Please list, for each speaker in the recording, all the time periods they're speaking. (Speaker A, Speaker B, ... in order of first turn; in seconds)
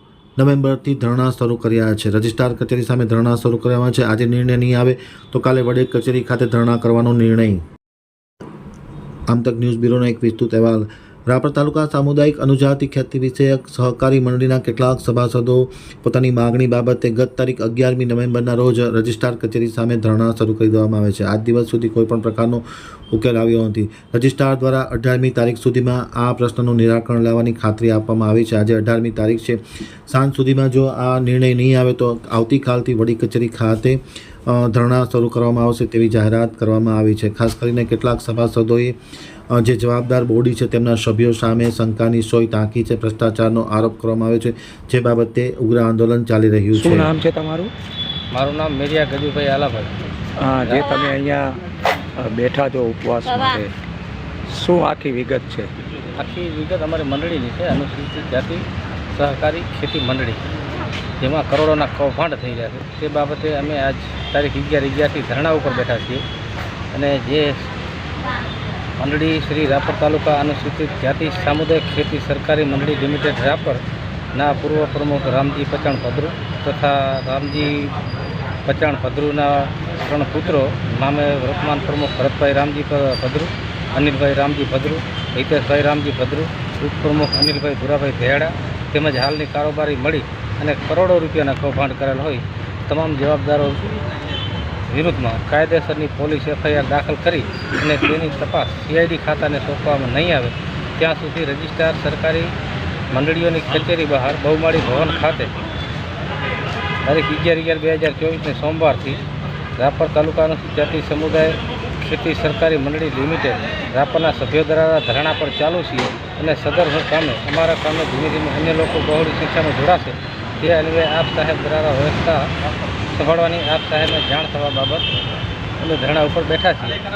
Speaker A: 0.4-7.6, 9.3-39.0, 39.5-47.1
Speaker B: 46.7-47.7, 50.4-51.6, 52.2-53.7, 54.5-55.7
Speaker C: 48.3-49.9, 50.7-50.9, 56.2-60.4, 61.2-66.2, 66.9-67.7, 69.0-77.9, 78.7-94.0, 94.9-102.5, 103.1-105.5, 107.0-109.2, 109.8-122.5, 123.1-125.1, 125.8-127.0